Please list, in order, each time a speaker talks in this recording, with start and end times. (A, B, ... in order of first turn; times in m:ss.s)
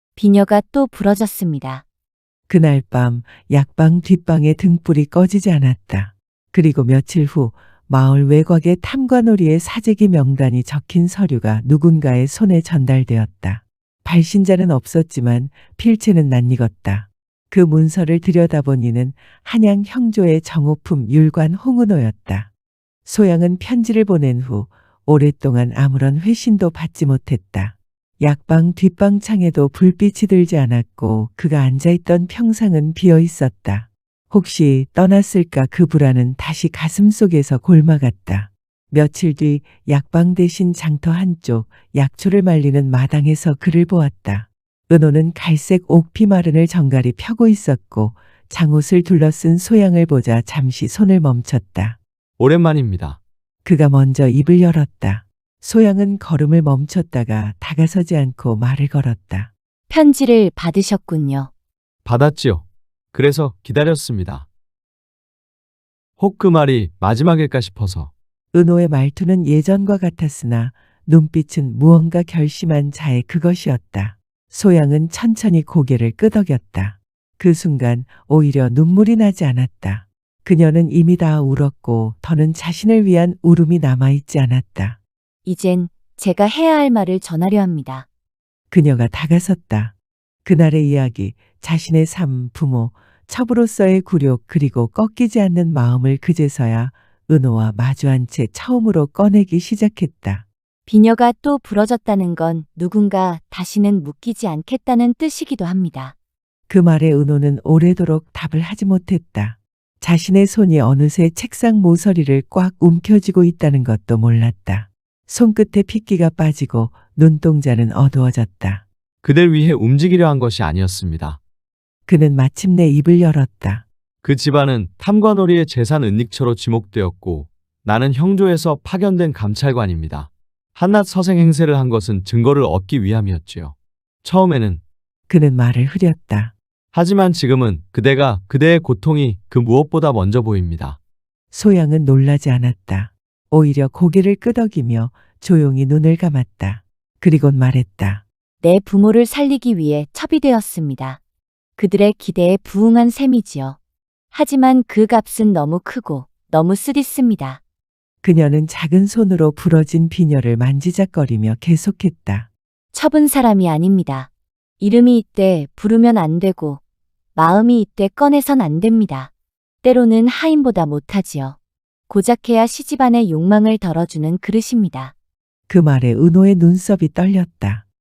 0:00.2-0:01.8 A
0:02.5-0:22.5 B
0:23.0-0:52.0 B
0:52.4-0:53.2 C
0:53.6-0:59.5 B
0:59.9-1:01.5 A
1:02.0-1:04.5 C
1:06.2-1:08.1 C
1:08.5-1:25.0 B
1:25.4-1:28.0 A
1:28.7-1:29.9 B
1:30.4-1:40.4 B
1:40.9-1:46.1 A
1:46.7-1:58.8 B
1:59.2-2:01.4 C
2:02.1-2:03.8 B
2:04.2-2:14.8 C
2:15.3-2:16.5 B
2:16.9-2:21.0 C
2:21.5-2:28.2 B
2:28.6-2:31.2 A
2:31.8-2:33.8 A
2:34.3-2:37.6 A
2:38.2-2:42.5 B
2:42.9-2:44.3 A
2:44.8-2:46.8 A
2:47.3-2:49.3 A
2:49.8-2:51.6 A
2:52.1-2:55.1 A
2:55.7-2:57.8 B